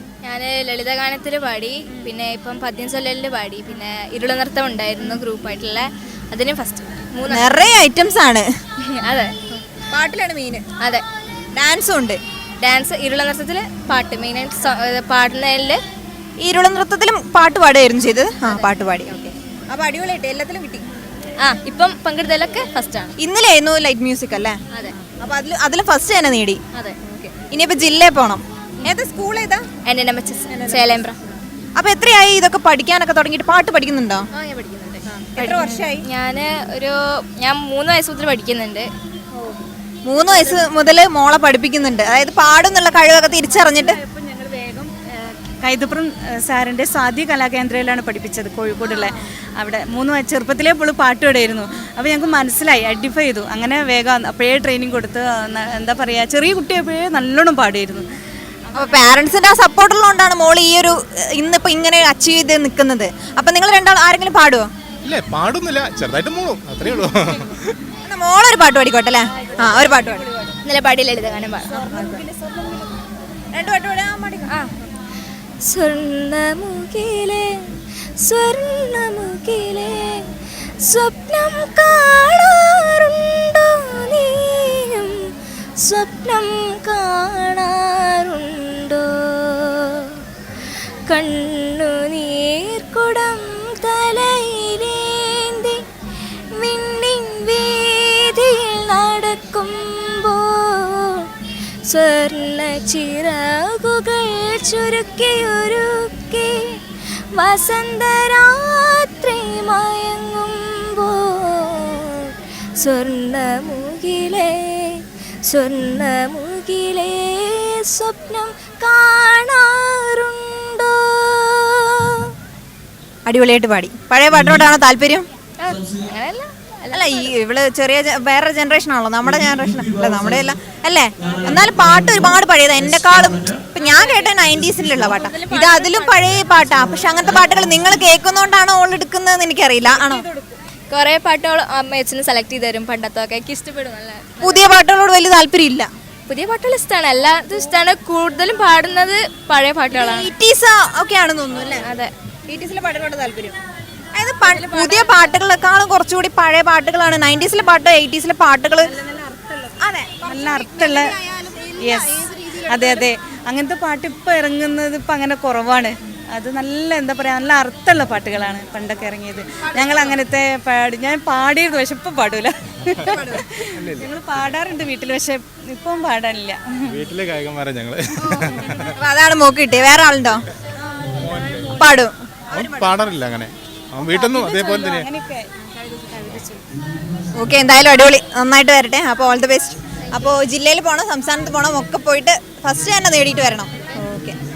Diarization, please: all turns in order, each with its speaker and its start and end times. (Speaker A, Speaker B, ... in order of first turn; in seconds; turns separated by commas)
Speaker A: 0.2-7.7, Speaker B: 7.3-8.5, Speaker A: 8.9-9.4, Speaker B: 9.9-10.6, Speaker B: 11.6-12.2, Speaker A: 12.6-15.8, Speaker B: 16.4-20.9, Speaker A: 21.4-23.1, Speaker B: 23.2-24.6, Speaker B: 25.2-29.6, Speaker A: 29.8-31.2, Speaker B: 30.5-31.0, Speaker B: 31.8-34.3, Speaker A: 34.3-38.9, Speaker B: 35.1-36.0, Speaker B: 40.0-44.0, Speaker C: 40.2-40.7, Speaker C: 43.5-58.1, Speaker C: 58.7-59.0, Speaker B: 58.7-64.7, Speaker D: 65.0-67.8, Speaker B: 68.0-70.2, Speaker C: 69.3-70.6, Speaker A: 70.7-72.2, Speaker C: 71.7-73.1, Speaker B: 73.5-74.5, Speaker A: 75.7-77.6, Speaker A: 78.2-80.2, Speaker A: 80.8-85.2, Speaker A: 85.8-90.1, Speaker A: 91.1-95.8, Speaker A: 96.6-101.3, Speaker A: 101.8-106.8, Speaker A: 107.3-122.0, Speaker B: 123.2-125.3, Speaker A: 125.6-127.3, Speaker B: 126.9-140.2, Speaker A: 133.8-134.4, Speaker A: 135.1-136.4, Speaker C: 139.9-140.6, Speaker A: 140.9-144.7, Speaker B: 144.4-145.9, Speaker A: 146.3-150.3, Speaker B: 149.9-151.9, Speaker A: 151.7-152.1, Speaker B: 152.5-153.6, Speaker B: 154.2-158.9, Speaker C: 154.5-155.2, Speaker C: 158.8-161.1, Speaker B: 159.8-163.1, Speaker C: 161.8-176.9, Speaker B: 169.7-170.2, Speaker B: 173.0-173.5, Speaker D: 173.7-174.5, Speaker D: 176.9-178.9, Speaker C: 178.3-178.8, Speaker B: 178.9-180.4, Speaker C: 180.9-182.0, Speaker D: 181.2-181.8, Speaker B: 181.8-183.0, Speaker D: 182.5-185.1, Speaker C: 184.0-186.6, Speaker B: 187.4-194.4